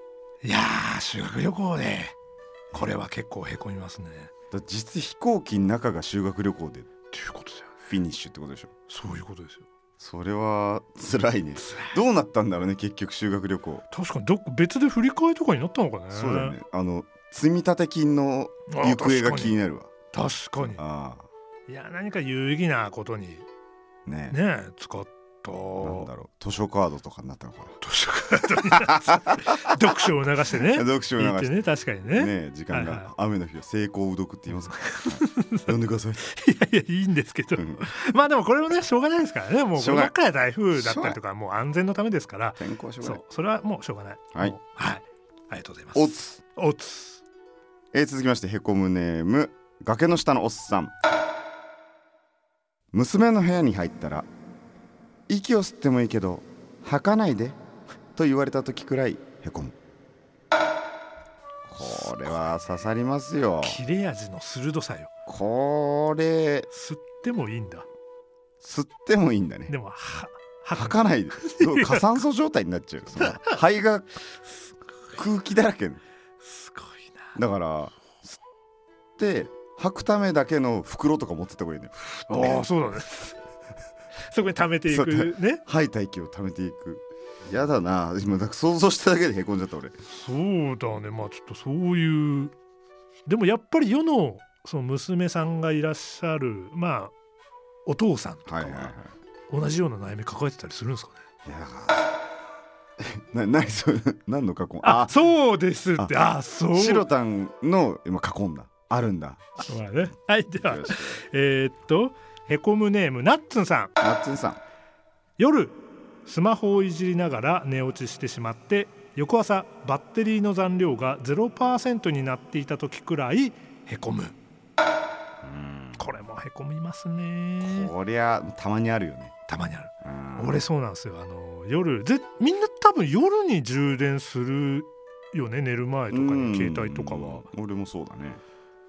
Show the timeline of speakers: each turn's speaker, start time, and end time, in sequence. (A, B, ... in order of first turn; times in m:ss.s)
0:00.4-0:02.1 A
0:02.7-0:04.3 A
0:04.5-0:06.9 B
0:07.1-0:07.7 A
0:07.9-0:08.7 B
0:08.9-0:09.7 A
0:10.0-0:13.8 B
0:11.6-0:12.0 A
0:13.9-0:16.6 A
0:16.1-0:19.9 B
0:18.7-0:19.6 A
0:20.1-0:20.8 A
0:20.6-0:21.3 B
0:21.7-0:23.4 A
0:24.0-0:24.4 B
0:24.3-0:26.1 A
0:25.8-0:27.8 B
0:27.8-0:33.1 A
0:28.7-0:36.2 B
0:34.5-0:47.2 A
0:37.6-0:37.8 B
0:39.8-0:40.1 B
0:40.7-0:41.2 B
0:42.6-0:43.2 B
0:45.9-0:46.4 B
0:47.9-0:50.9 B
0:52.9-0:54.3 B
0:55.3-0:57.6 B
0:58.2-0:59.7 B
1:01.7-1:03.8 B
1:01.8-1:02.5 A
1:03.6-1:05.1 A
1:05.2-1:06.7 B
1:06.7-1:07.9 A
1:08.6-1:09.7 B
1:09.7-1:12.2 A
1:10.7-1:14.2 B
1:13.2-1:13.6 A
1:15.1-1:16.0 B
1:16.4-1:17.4 A
1:17.3-1:18.4 B
1:19.2-1:22.7 B
1:22.2-1:23.4 A
1:24.2-1:25.6 A
1:24.9-1:29.9 B
1:30.1-1:32.5 A
1:33.3-1:37.1 A
1:37.8-1:38.9 A
1:38.5-1:39.1 B
1:39.5-1:41.2 A
1:41.4-1:42.1 B
1:43.0-1:45.2 B
1:44.8-1:47.1 A
1:46.0-1:49.6 B
1:49.6-1:53.9 A
1:50.6-1:51.2 B
1:54.0-1:54.6 B
1:55.4-2:04.3 A
2:05.4-2:06.1 B
2:06.0-2:07.9 A
2:07.6-2:09.3 B
2:09.5-2:17.5 A
2:10.0-2:10.6 B
2:16.1-2:18.4 B